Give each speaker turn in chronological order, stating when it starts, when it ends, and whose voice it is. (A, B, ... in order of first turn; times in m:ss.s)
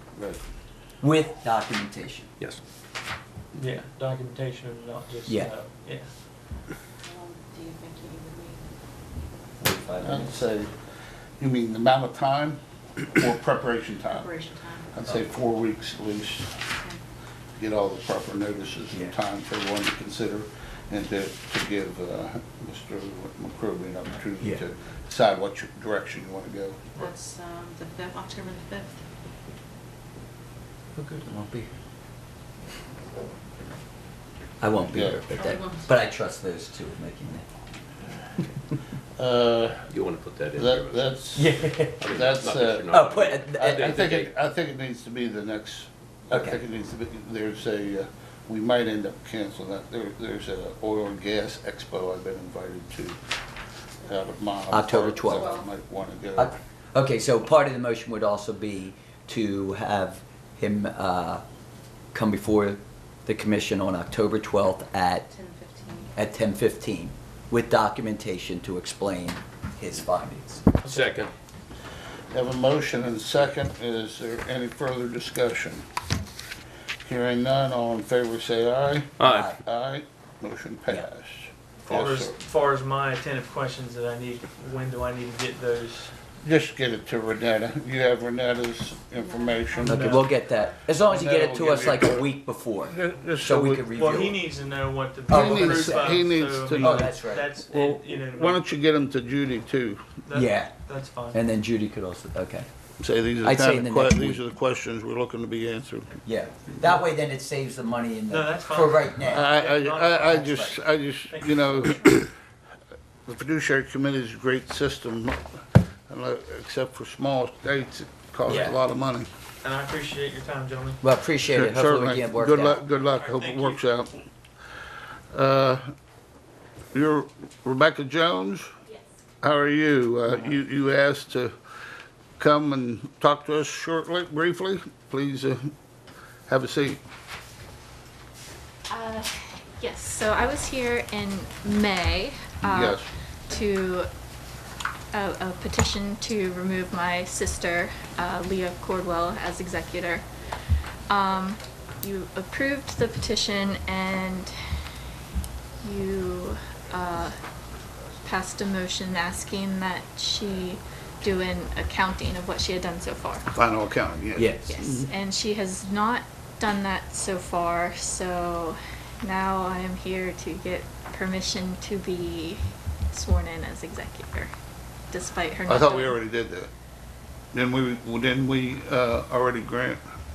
0:00.1-0:00.4 A
0:01.0-0:02.3 B
0:03.5-0:06.1 C
0:05.2-0:05.5 B
0:07.0-0:08.7 D
0:09.6-0:10.4 B
0:10.0-0:10.7 A
0:11.4-0:14.3 A
0:14.1-0:15.0 D
0:14.9-0:16.6 A
0:16.7-0:17.0 D
0:17.6-0:26.9 A
0:27.0-0:29.0 D
0:31.0-0:31.7 B
0:34.6-0:37.4 B
0:34.8-0:35.2 A
0:35.3-0:35.9 D
0:39.2-0:39.9 A
0:39.9-0:44.3 E
0:40.5-0:42.9 A
0:41.3-0:42.2 B
0:42.9-0:44.0 B
0:43.6-0:53.2 A
0:46.3-0:46.6 B
0:54.0-0:56.6 A
0:54.7-0:55.5 B
0:55.2-0:55.7 D
0:56.4-1:01.4 B
1:02.1-1:05.3 B
1:05.3-1:06.1 D
1:06.1-1:10.6 B
1:10.8-1:11.3 C
1:10.9-1:11.3 E
1:12.3-1:15.8 A
1:17.0-1:22.3 A
1:19.2-1:19.5 E
1:19.2-1:19.6 B
1:21.9-1:26.1 C
1:26.4-1:30.0 A
1:29.1-1:30.8 D
1:29.8-1:30.3 C
1:29.8-1:34.4 B
1:31.1-1:32.2 A
1:32.8-1:33.9 A
1:33.9-1:38.6 C
1:35.3-1:36.2 B
1:35.3-1:40.2 A
1:36.8-1:37.5 B
1:40.2-1:41.4 C
1:40.3-1:40.8 B
1:41.3-1:42.7 B
1:43.0-1:46.2 A
1:43.4-1:44.4 B
1:46.2-1:49.4 B
1:48.3-1:50.5 C
1:49.2-1:52.3 A
1:50.3-1:50.8 B
1:51.3-1:52.0 C
1:53.3-1:55.4 A
1:56.1-1:59.3 A
1:58.4-1:58.8 B
1:59.6-2:01.0 C
2:01.0-2:02.8 B
2:01.5-2:04.2 A
2:03.0-2:03.8 C
2:05.3-2:05.8 A
2:06.9-2:08.7 A
2:09.4-2:11.5 A
2:12.4-2:15.7 A
2:16.5-2:17.0 A
2:18.9-2:24.1 F
2:22.6-2:23.1 A
2:25.1-2:30.2 F
2:31.1-2:34.5 F
2:35.8-2:37.4 F
2:38.2-2:43.4 F
2:43.5-2:45.1 A
2:44.4-2:44.7 B
2:44.7-2:54.5 F
2:55.1-2:56.2 F
2:55.6-2:56.7 A
2:57.5-3:00.0 A